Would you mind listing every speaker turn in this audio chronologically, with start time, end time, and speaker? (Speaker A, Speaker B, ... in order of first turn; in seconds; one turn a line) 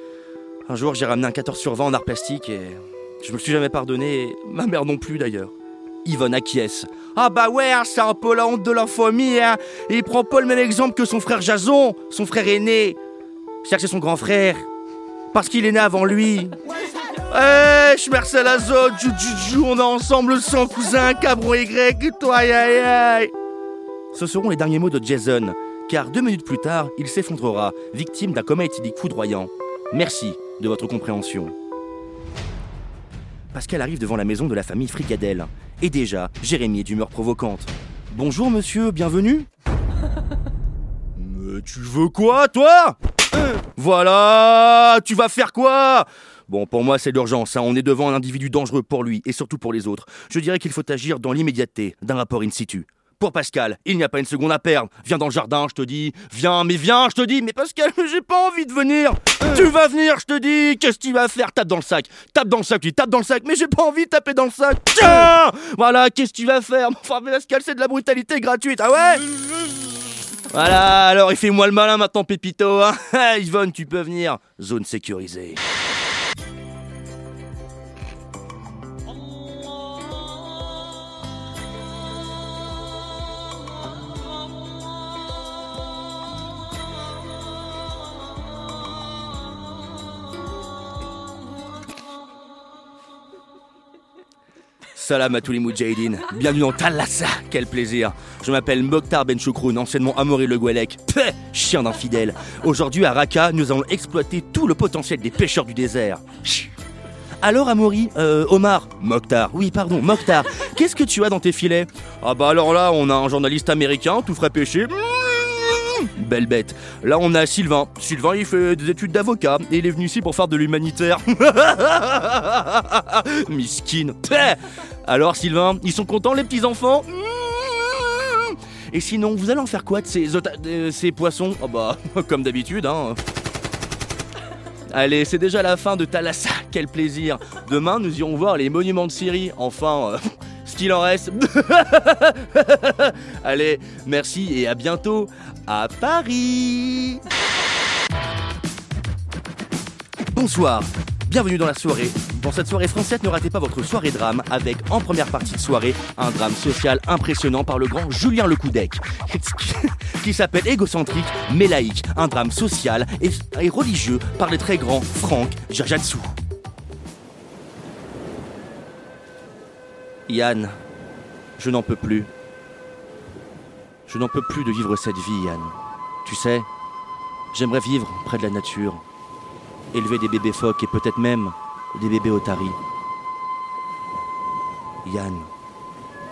Speaker A: 0.7-5.5
Speaker A: 6.0-13.0
Speaker A: 13.6-14.7
Speaker A: 15.3-16.6
Speaker A: 17.3-23.3
Speaker A: 24.1-31.5
Speaker A: 33.5-39.5
Speaker A: 41.1-69.2
Speaker A: 70.5-75.6
Speaker A: 95.0-106.7
Speaker A: 107.4-133.2
Speaker A: 134.9-147.2
Speaker A: 150.3-166.3
Speaker A: 170.3-170.7
Speaker A: 171.6-172.3
Speaker A: 174.1-176.7
Speaker A: 177.5-179.0
Speaker A: 179.9-182.8
Speaker A: 185.0-185.5